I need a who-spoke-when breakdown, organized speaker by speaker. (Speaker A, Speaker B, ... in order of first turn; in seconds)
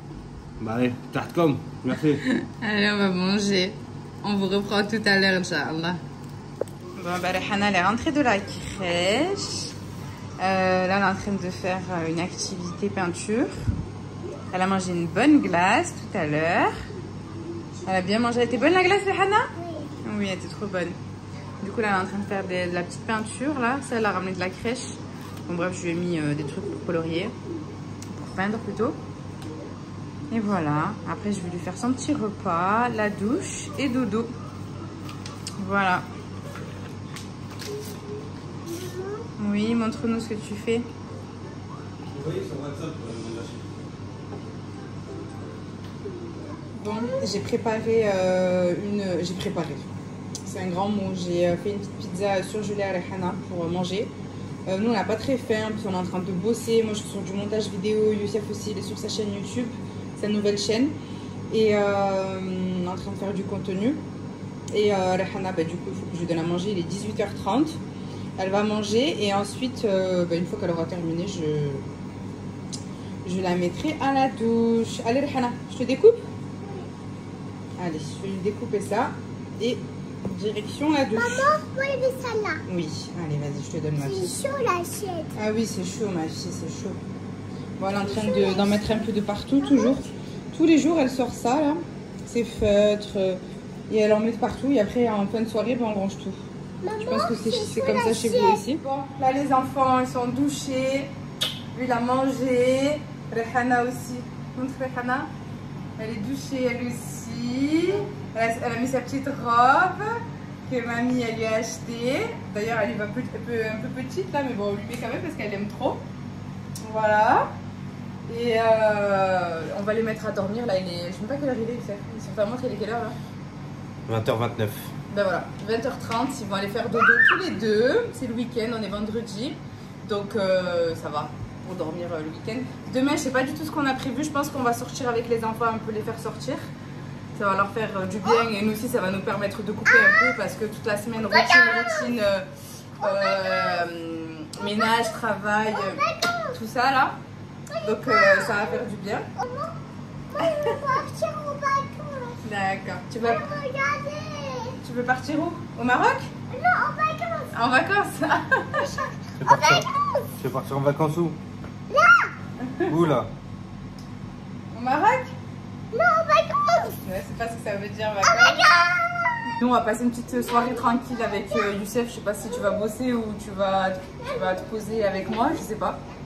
Speaker A: 0.6-2.2, 42.1-43.6, 124.1-124.9, 159.4-161.4, 162.9-163.3
Speaker B: 2.2-6.0, 7.0-9.7, 10.4-13.6, 14.5-16.8, 17.8-20.9, 21.6-27.3, 28.1-29.0, 30.3-34.3, 35.6-36.0, 39.4-40.9, 46.7-49.9, 50.4-54.1, 54.7-60.9, 61.5-64.0, 64.7-67.8, 68.4-71.8, 73.2-76.2, 77.8-81.5, 82.7-84.4, 85.3-87.0, 87.8-96.4, 97.0-101.1, 101.7-105.3, 106.0-110.1, 110.7-116.0, 116.8-117.5, 118.3-123.2, 125.1-136.7, 137.3-142.5, 143.0-147.2, 147.8-149.3, 152.4-153.5, 154.8-156.3, 157.5-158.9, 162.6-162.9, 164.7-165.3, 167.0-168.7, 169.5-176.0
Speaker C: 38.8-39.0, 81.2-82.6, 84.0-85.3, 96.8-98.6, 141.5-141.9, 145.9-146.5, 147.7-148.6, 149.4-149.7, 150.3-152.4, 153.2-154.8, 156.5-157.5, 158.8-160.3, 161.9-162.3, 165.9-167.0